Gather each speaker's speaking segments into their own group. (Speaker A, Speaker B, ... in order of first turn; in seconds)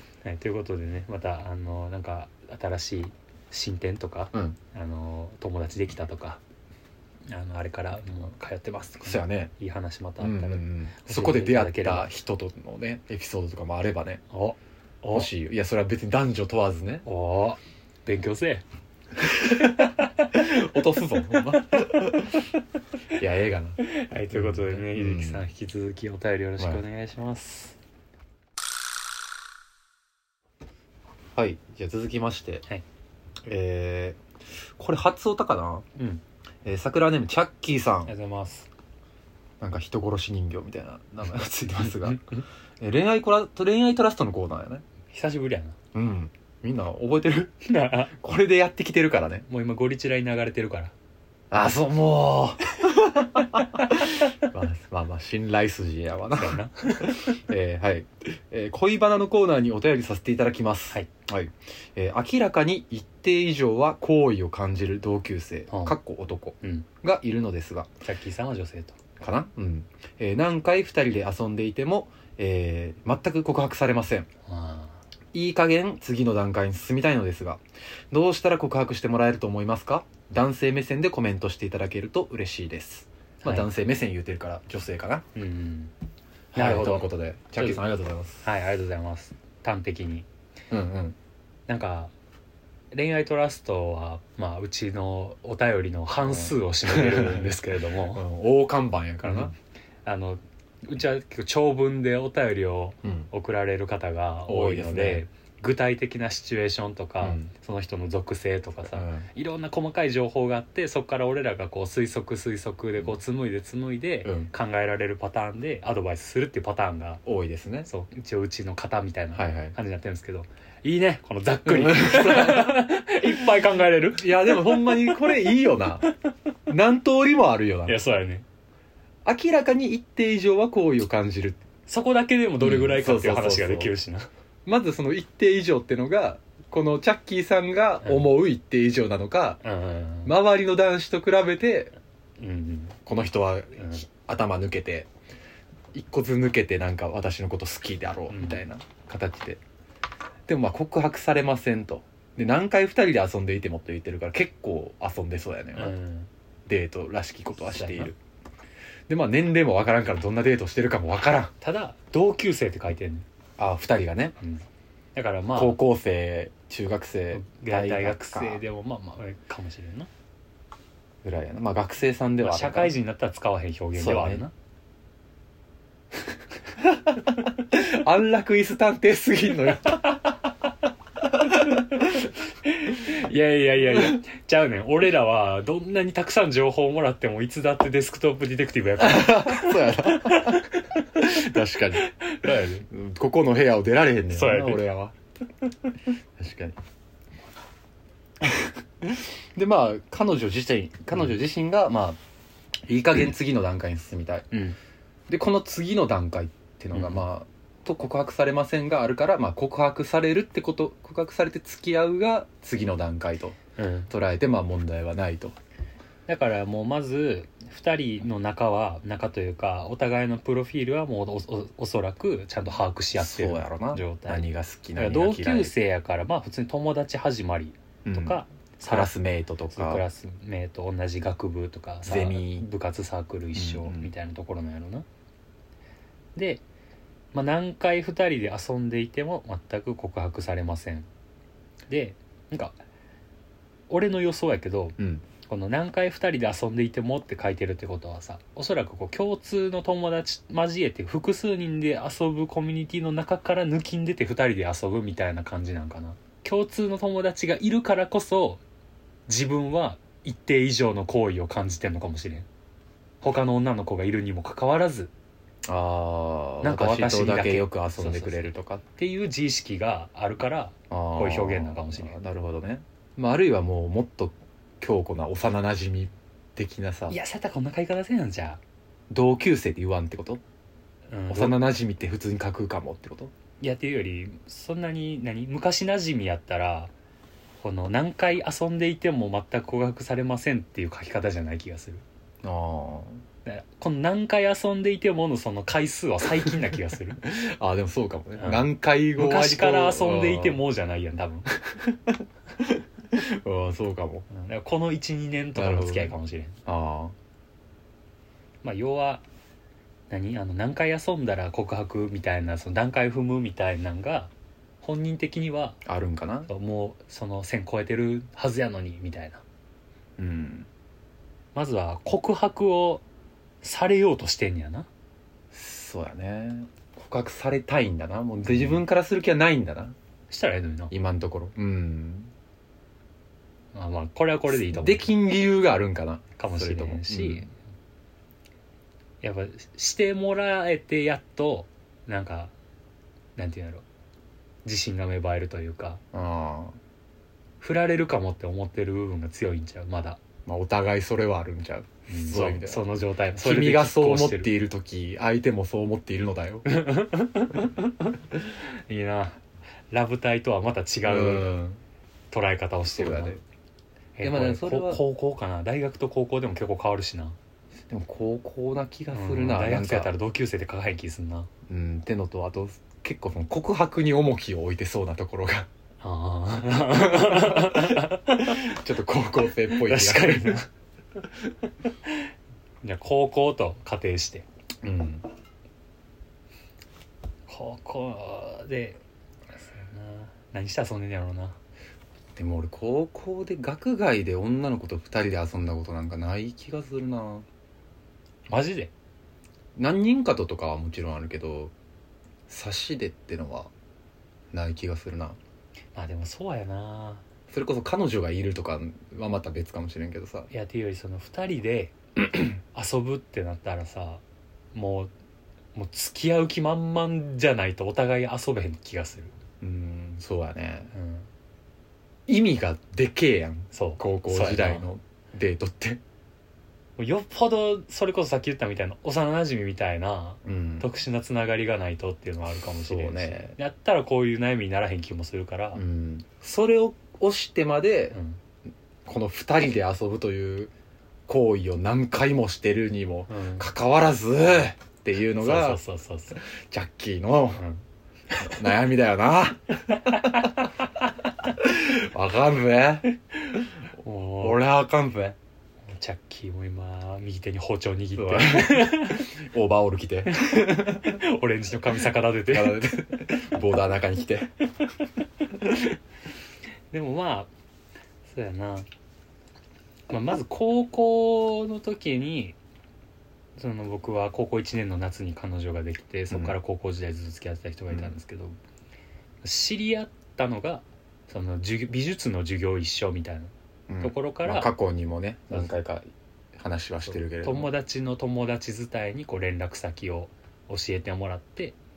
Speaker A: 0.2-6.4, 7.3-12.1, 14.3-15.3, 17.1-18.6, 19.6-20.5, 23.8-27.8, 36.0-36.2, 38.1-38.7, 45.1-45.8, 47.6-48.1, 49.5-50.9, 56.4-57.4, 65.7-66.0, 66.6-66.9, 68.0-69.0, 74.5-75.0, 83.4-83.7, 85.3-85.9, 86.5-87.8, 88.4-90.3, 91.7-92.1, 92.9-98.2, 99.2-99.5, 100.0-117.2, 117.8-125.4, 127.9-128.4, 131.9-134.3, 138.0-138.3, 139.6-140.3, 142.4-143.0, 143.8-144.0, 148.3-148.6, 155.8-156.3, 157.7-158.1, 161.6-163.3, 165.2-165.8, 167.3-170.1, 172.4-174.5, 182.7-191.4, 192.0-192.9, 194.3-194.9, 206.9-207.3, 213.8-214.1, 216.3-229.1, 229.7-235.1, 236.4-236.6, 237.3-241.1, 241.9-242.8, 243.9-258.6, 259.3-262.5, 263.2-265.1, 266.6-272.2, 277.1-278.6, 281.1-281.7, 283.6-286.9, 287.6-292.0, 293.4-297.2, 298.4-301.5, 304.3-306.6, 308.6-309.2, 310.1-315.8, 316.5-319.4, 321.6-323.0, 323.6-324.9, 328.5-328.8, 330.3-330.9, 333.7-335.1, 336.4-337.5, 339.2-342.5, 343.4-343.9, 344.6-346.0, 347.6-350.2, 352.1-354.5, 356.7-361.5, 362.3-363.4, 364.2-367.4, 369.1-371.5, 376.0-378.8, 379.7-380.7, 382.8-384.5, 387.5-389.0, 389.5-391.6, 398.5-398.9, 405.9-407.2, 410.5-414.2, 414.7-415.1, 415.8-419.3, 420.9-421.3, 423.7-424.9, 427.0-435.8, 438.1-438.4, 443.3-443.7, 445.4-446.4, 447.6-447.8, 449.9-450.7, 453.4-454.6, 455.9-459.4, 460.3-462.9, 466.9-467.5, 468.2-468.9, 470.1-472.6, 473.6-478.6, 479.4-484.7, 487.1-491.8
Speaker B: 9.0-9.5, 10.2-14.2, 15.1-17.1, 19.2-22.4, 23.2-23.8, 24.3-25.4, 31.4-32.6, 33.5-34.2, 34.8-35.9, 36.6-38.1, 39.6-42.2, 42.8-44.8, 45.9-47.5, 48.1-49.5, 51.5-67.9, 69.2-74.3, 75.3-85.2, 86.5-88.4, 90.7-91.2, 96.2-99.5, 104.5-105.2, 107.2-107.5, 108.9-109.3, 114.2-114.5, 117.3-117.9, 119.3-119.8, 121.7-122.8, 124.1-126.1, 126.7-128.0, 129.2-131.6, 132.6-133.9, 134.7-139.6, 140.2-141.9, 143.1-145.1, 145.9-149.6, 150.5-156.0, 156.7-158.2, 159.1-161.5, 163.6-164.4, 165.6-168.6, 171.2-172.9, 173.9-174.4, 176.8-180.3, 181.3-182.3, 189.0-192.1, 192.9-195.2, 196.4-196.8, 198.4-202.2, 202.9-204.5, 205.3-213.6, 214.1-215.6, 223.2-225.7, 228.1-230.0, 232.1-232.7, 233.6-234.1, 245.0-245.2, 265.6-268.8, 270.9-277.2, 279.1-280.4, 281.3-283.3, 292.4-293.2, 297.2-300.6, 301.7-304.3, 305.6-307.1, 315.9-316.5, 320.2-320.7, 325.5-330.0, 330.9-332.3, 334.5-337.5, 346.1-346.8, 350.5-356.6, 361.1-361.8, 362.9-363.4, 364.2-365.0, 367.9-370.1, 371.7-375.7, 376.9-380.6, 384.8-385.3, 392.4-397.5, 399.8-401.7, 402.5-403.7, 404.5-405.4, 407.5-410.5, 419.6-420.9, 422.3-426.0, 430.4-430.9, 432.6-433.6, 435.7-438.2, 439.1-440.7, 441.3-445.8, 446.4-447.6, 448.4-450.6, 451.4-453.1, 454.4-455.4, 458.2-461.2, 462.5-464.5, 476.3-476.6, 483.9-487.7